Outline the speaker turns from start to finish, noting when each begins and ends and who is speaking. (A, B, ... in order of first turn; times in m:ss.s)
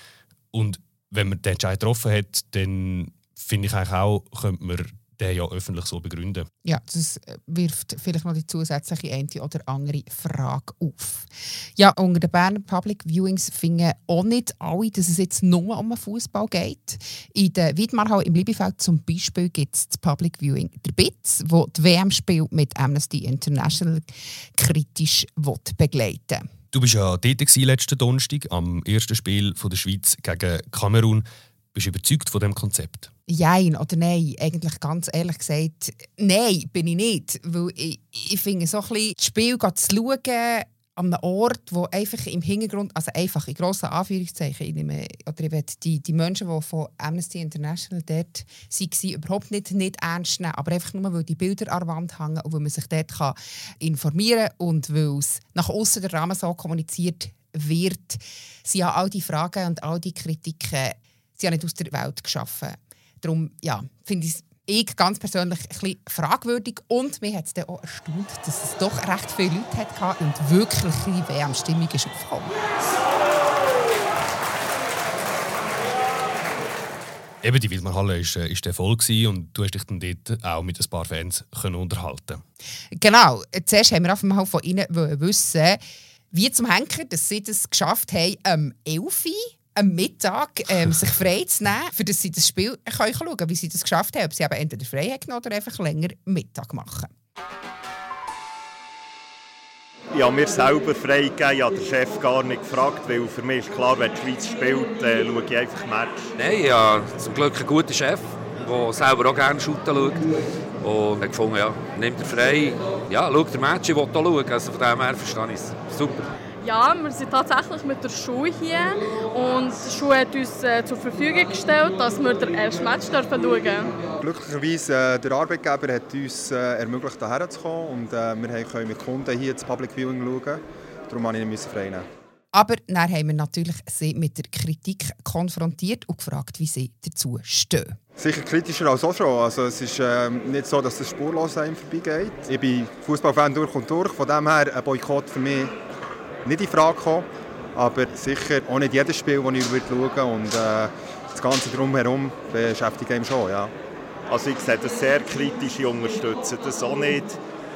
0:00.5-0:06.5 A
0:06.6-0:26.4 B
0:26.7-0:33.1 A
0:33.3-1:12.5 B
1:17.4-1:22.4 A
1:23.0-1:25.8 B
1:26.3-1:37.1 B
1:40.1-1:46.3 C
1:46.4-1:50.2 D
1:50.8-1:56.3 D
1:56.6-2:04.0 E
2:04.2-2:12.1 F
2:12.5-2:18.0 B
2:18.2-2:25.7 F
2:26.4-2:33.7 F
2:34.3-2:37.4 C